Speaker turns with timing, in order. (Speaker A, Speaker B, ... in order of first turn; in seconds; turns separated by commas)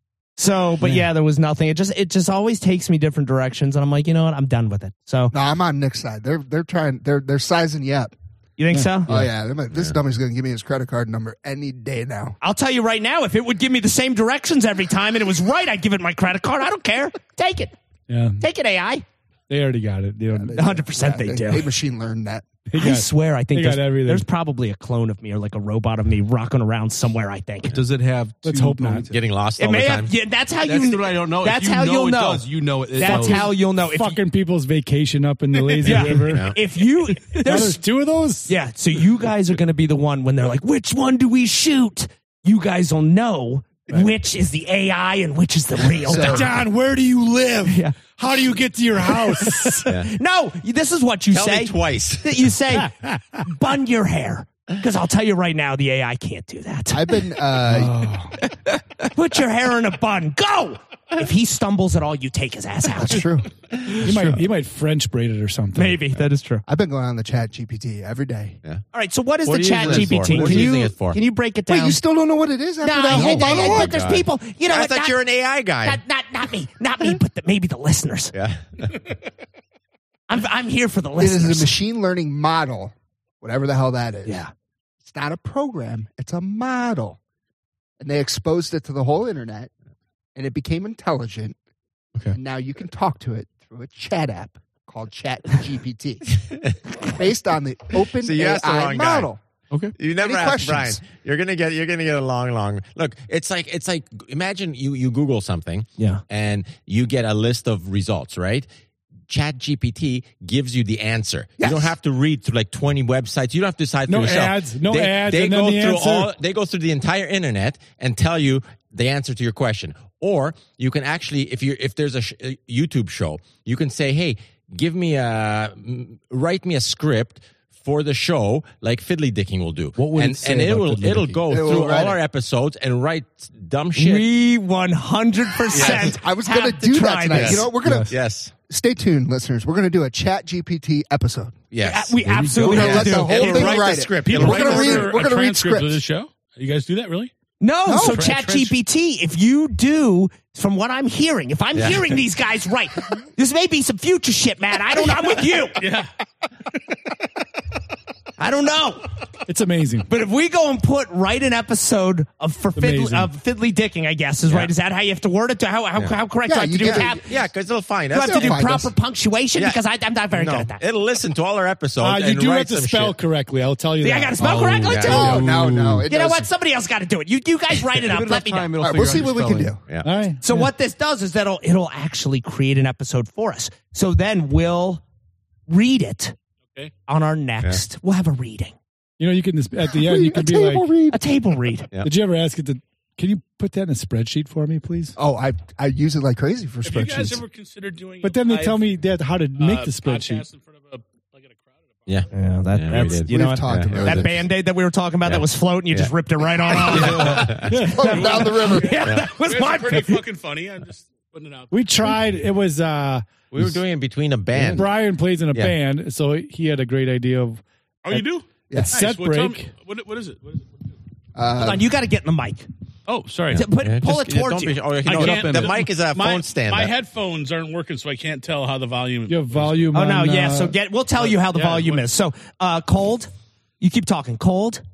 Speaker A: 0.4-5.3, Speaker B: 5.3-8.1, Speaker A: 8.6-9.1, Speaker C: 8.7-9.3, Speaker B: 9.1-12.4, Speaker A: 12.4-17.7, Speaker C: 18.1-18.4, Speaker A: 18.4-19.0, Speaker C: 19.5-20.6, Speaker B: 20.3-22.5, Speaker A: 20.5-21.7, Speaker C: 22.7-24.3, Speaker A: 22.7-27.8, Speaker D: 27.7-29.1, Speaker C: 28.4-29.1, Speaker E: 29.1-30.1, Speaker A: 29.6-34.2, Speaker D: 30.6-33.5, Speaker C: 33.0-36.6, Speaker A: 35.8-37.8, Speaker E: 36.0-36.6, Speaker C: 37.2-38.5, Speaker A: 38.5-46.5, Speaker B: 46.0-46.6, Speaker C: 46.1-49.9, Speaker A: 47.6-48.0, Speaker A: 49.4-57.3, Speaker E: 49.9-50.1, Speaker E: 51.3-52.5, Speaker C: 52.9-53.4, Speaker B: 56.9-58.4, Speaker A: 59.0-63.3, Speaker B: 63.0-64.4, Speaker E: 64.0-64.2, Speaker C: 64.0-66.0, Speaker A: 65.8-66.6, Speaker B: 66.7-68.6, Speaker A: 68.9-72.0, Speaker E: 69.5-71.2, Speaker D: 69.8-70.7, Speaker B: 71.7-74.0, Speaker A: 72.8-75.2, Speaker E: 73.1-76.0, Speaker A: 75.8-78.3, Speaker E: 78.3-79.0, Speaker A: 80.3-81.7, Speaker B: 81.2-84.4, Speaker A: 84.2-84.5, Speaker B: 85.0-87.2, Speaker B: 88.0-89.7, Speaker B: 90.3-91.5, Speaker B: 92.3-96.4, Speaker B: 97.0-99.4, Speaker E: 98.2-99.3, Speaker D: 99.7-100.0, Speaker E: 100.0-108.7, Speaker B: 100.1-101.0, Speaker E: 109.3-134.3, Speaker B: 111.6-111.9, Speaker C: 114.1-116.3, Speaker D: 130.0-131.5, Speaker B: 131.5-132.2, Speaker A: 133.9-137.7, Speaker E: 135.7-136.2, Speaker B: 135.7-138.1, Speaker E: 137.3-138.5, Speaker B: 138.7-141.6, Speaker E: 141.7-145.2, Speaker A: 141.8-143.8, Speaker B: 142.6-146.0, Speaker F: 143.8-147.3, Speaker A: 147.6-155.8, Speaker B: 147.9-148.3, Speaker F: 148.0-148.7, Speaker E: 151.7-152.2, Speaker F: 155.8-156.1, Speaker A: 158.4-159.1, Speaker C: 159.5-160.1, Speaker A: 160.1-167.3, Speaker C: 162.8-163.3, Speaker E: 164.5-164.7, Speaker B: 166.4-167.3, Speaker E: 166.9-168.6, Speaker A: 168.1-170.8, Speaker B: 168.2-168.9, Speaker E: 169.6-173.2, Speaker C: 172.0-174.4, Speaker A: 174.0-175.5, Speaker D: 174.4-176.1, Speaker E: 174.9-175.4, Speaker B: 175.1-176.5, Speaker A: 176.1-178.7, Speaker D: 178.0-179.8, Speaker B: 178.8-179.9, Speaker C: 180.0-180.7, Speaker A: 180.4-185.0, Speaker A: 185.7-186.3, Speaker A: 187.1-188.8, Speaker C: 189.2-190.9, Speaker B: 189.9-191.2, Speaker A: 191.1-191.9, Speaker C: 192.0-195.2, Speaker B: 195.2-197.4, Speaker F: 196.8-199.0, Speaker C: 198.2-200.4, Speaker F: 199.6-202.1, Speaker E: 202.1-204.5, Speaker A: 202.3-210.2, Speaker B: 203.0-204.4, Speaker E: 205.3-206.1, Speaker E: 206.7-207.7, Speaker D: 206.9-207.5, Speaker C: 207.6-208.2, Speaker B: 207.8-209.0, Speaker F: 208.0-212.2, Speaker C: 211.7-213.7, Speaker E: 213.5-215.0, Speaker C: 214.6-217.6, Speaker F: 218.0-220.7, Speaker B: 218.7-218.9, Speaker C: 218.7-219.7, Speaker B: 221.3-221.9, Speaker A: 221.6-222.7, Speaker F: 223.1-223.7, Speaker E: 223.5-226.9, Speaker A: 223.5-224.9, Speaker F: 225.1-229.8, Speaker D: 225.1-225.8, Speaker C: 229.3-230.8, Speaker A: 229.9-234.8, Speaker F: 231.3-232.1